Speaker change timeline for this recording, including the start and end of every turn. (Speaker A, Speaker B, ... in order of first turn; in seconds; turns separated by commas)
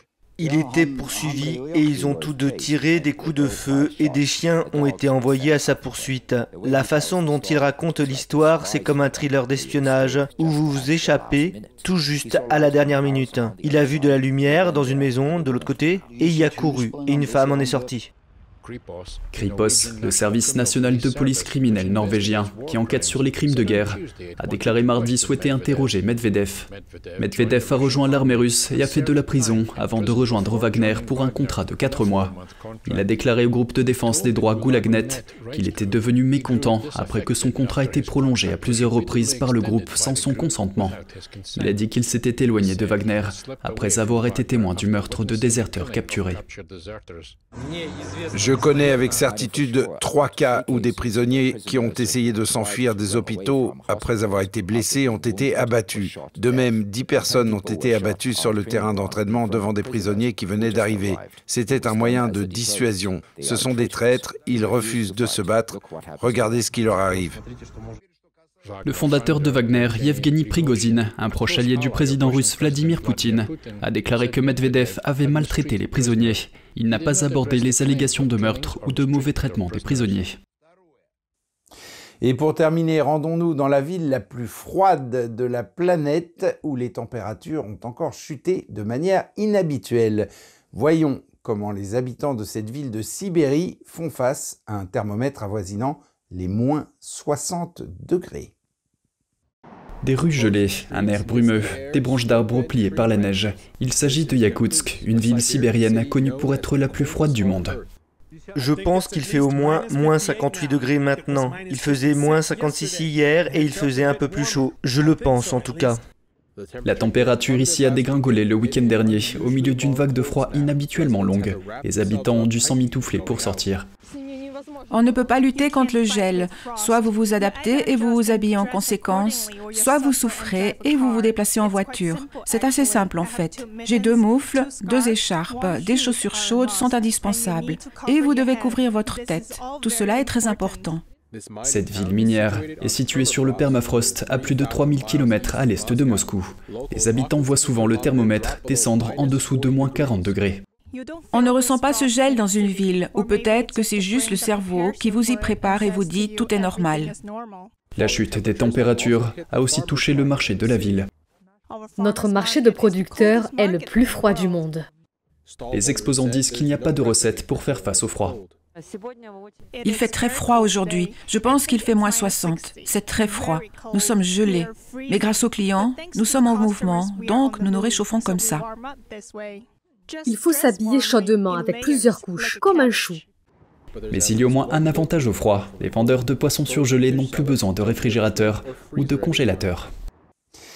Speaker A: 0.4-18.1, Speaker B: 19.3-41.0, Speaker B: 41.5-46.4, Speaker C: 48.3-67.4, Speaker B: 68.8-80.4, Speaker C: 82.2-98.5, Speaker B: 100.0-107.8, Speaker A: 108.6-116.0, Speaker B: 116.8-123.9, Speaker D: 124.9-141.0, Speaker B: 141.6-150.6, Speaker D: 151.3-157.2, Speaker B: 157.9-161.1, Speaker E: 162.0-164.8, Speaker B: 165.7-168.4, Speaker D: 169.8-178.7, Speaker E: 180.2-183.2, Speaker B: 184.1-189.9